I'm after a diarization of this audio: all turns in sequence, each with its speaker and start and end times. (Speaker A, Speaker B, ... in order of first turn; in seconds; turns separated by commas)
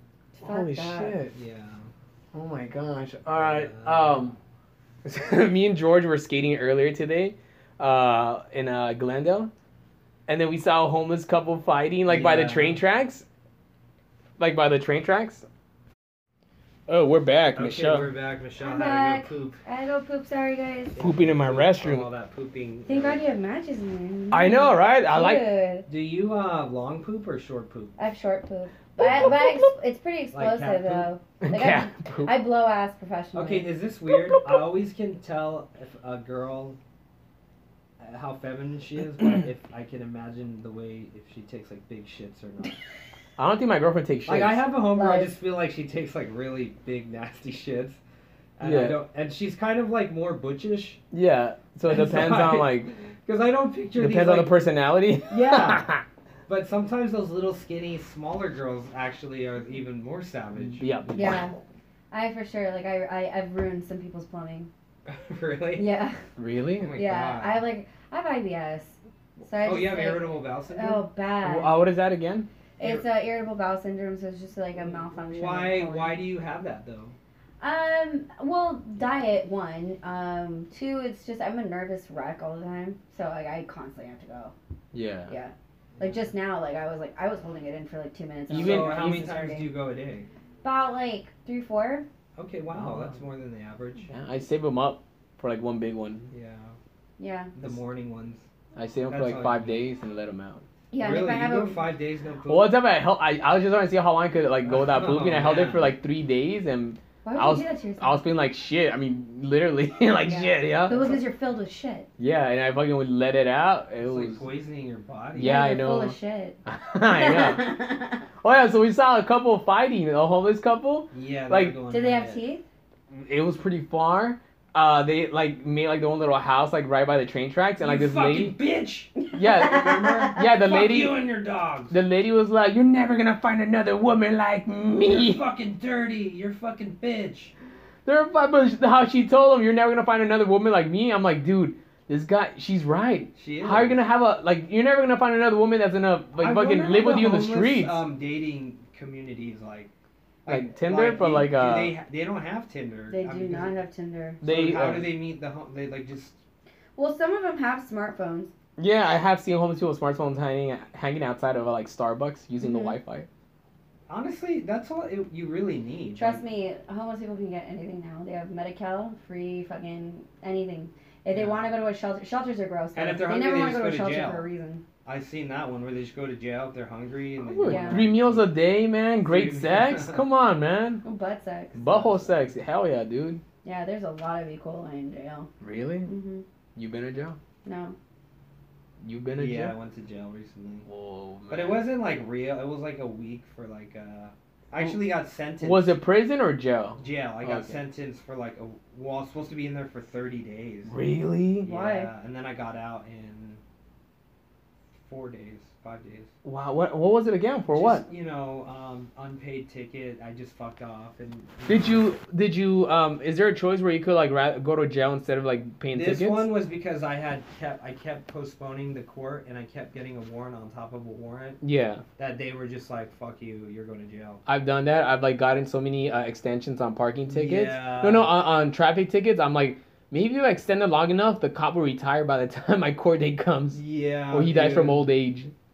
Speaker A: 0.3-1.2, Speaker B: 0.4-1.3, Speaker C: 1.3-1.9, Speaker B: 2.3-4.4, Speaker C: 3.3-4.2, Speaker B: 5.0-9.5, Speaker B: 10.3-13.2, Speaker C: 12.1-12.8, Speaker B: 14.4-15.4, Speaker B: 16.9-18.1, Speaker C: 17.6-19.6, Speaker A: 18.6-20.9, Speaker C: 20.9-23.2, Speaker B: 21.0-22.1, Speaker A: 22.9-25.9, Speaker B: 24.3-25.5, Speaker C: 25.9-28.0, Speaker A: 28.0-33.7, Speaker B: 29.0-29.7, Speaker C: 29.0-29.3, Speaker C: 30.3-31.1, Speaker B: 31.4-32.4, Speaker C: 33.3-36.8, Speaker B: 34.1-34.6, Speaker C: 38.0-42.8, Speaker B: 43.4-44.6, Speaker C: 44.2-48.0, Speaker A: 44.9-45.3, Speaker C: 48.6-51.0, Speaker B: 48.6-49.0, Speaker B: 51.1-52.9, Speaker C: 51.9-54.5, Speaker B: 54.0-56.0, Speaker C: 55.3-55.9, Speaker C: 56.5-61.4, Speaker B: 60.7-61.4, Speaker A: 61.1-61.5, Speaker A: 62.1-64.7, Speaker C: 65.1-65.9, Speaker A: 65.8-66.2, Speaker B: 66.4-66.9, Speaker C: 66.8-67.6, Speaker A: 67.0-71.8, Speaker C: 69.6-71.1, Speaker B: 71.4-72.5, Speaker A: 72.8-76.2, Speaker C: 72.8-73.0, Speaker C: 74.8-77.1, Speaker A: 77.6-84.5, Speaker B: 84.9-85.3, Speaker A: 85.3-89.7, Speaker C: 86.0-86.3, Speaker B: 88.5-89.3, Speaker C: 88.5-90.3, Speaker A: 90.6-92.0, Speaker C: 92.3-94.1, Speaker B: 92.7-93.2, Speaker B: 94.1-96.3, Speaker C: 96.3-96.8, Speaker A: 97.2-97.5, Speaker C: 97.5-98.4, Speaker B: 98.8-100.6, Speaker C: 99.1-99.8, Speaker A: 100.9-101.8, Speaker C: 101.0-102.7, Speaker B: 102.5-111.1, Speaker C: 104.6-105.9, Speaker A: 107.2-108.2, Speaker A: 110.2-112.1, Speaker B: 112.2-114.4, Speaker C: 114.0-115.5, Speaker B: 115.3-116.1, Speaker A: 115.4-118.2, Speaker B: 116.7-117.7, Speaker B: 118.4-121.7, Speaker C: 121.1-122.4, Speaker A: 121.9-122.6, Speaker B: 123.1-128.6, Speaker C: 127.8-131.9, Speaker A: 129.2-130.5, Speaker B: 129.3-131.2, Speaker B: 131.9-135.4, Speaker C: 135.0-137.5, Speaker B: 138.1-148.0, Speaker C: 143.3-144.0, Speaker C: 146.3-149.9, Speaker C: 150.4-153.8, Speaker B: 150.4-151.9, Speaker A: 153.1-154.4, Speaker B: 154.4-155.1, Speaker C: 154.4-156.3, Speaker A: 156.9-158.5, Speaker B: 158.8-163.3, Speaker A: 162.6-163.0, Speaker C: 164.1-166.4, Speaker A: 166.2-174.8, Speaker C: 171.3-171.7, Speaker C: 172.9-174.4, Speaker C: 175.0-178.5, Speaker B: 177.5-181.0, Speaker A: 177.6-178.1, Speaker C: 179.2-180.2, Speaker A: 181.0-181.8, Speaker C: 181.7-182.6, Speaker B: 181.8-183.4, Speaker A: 183.6-185.5, Speaker B: 185.6-186.1, Speaker A: 186.1-186.4, Speaker B: 186.8-187.4, Speaker A: 187.6-187.9, Speaker B: 189.0-189.7, Speaker C: 189.3-190.9, Speaker B: 190.8-191.9, Speaker C: 191.5-196.0, Speaker B: 195.6-197.8, Speaker C: 197.0-200.9, Speaker B: 200.9-201.7, Speaker C: 201.6-203.6, Speaker A: 201.7-202.1, Speaker C: 205.0-206.3, Speaker B: 206.4-208.0, Speaker C: 207.7-212.1, Speaker B: 211.7-216.5, Speaker C: 215.9-221.6, Speaker B: 221.6-222.0, Speaker C: 222.2-224.4, Speaker B: 224.4-235.5, Speaker C: 227.3-228.3, Speaker C: 233.7-235.1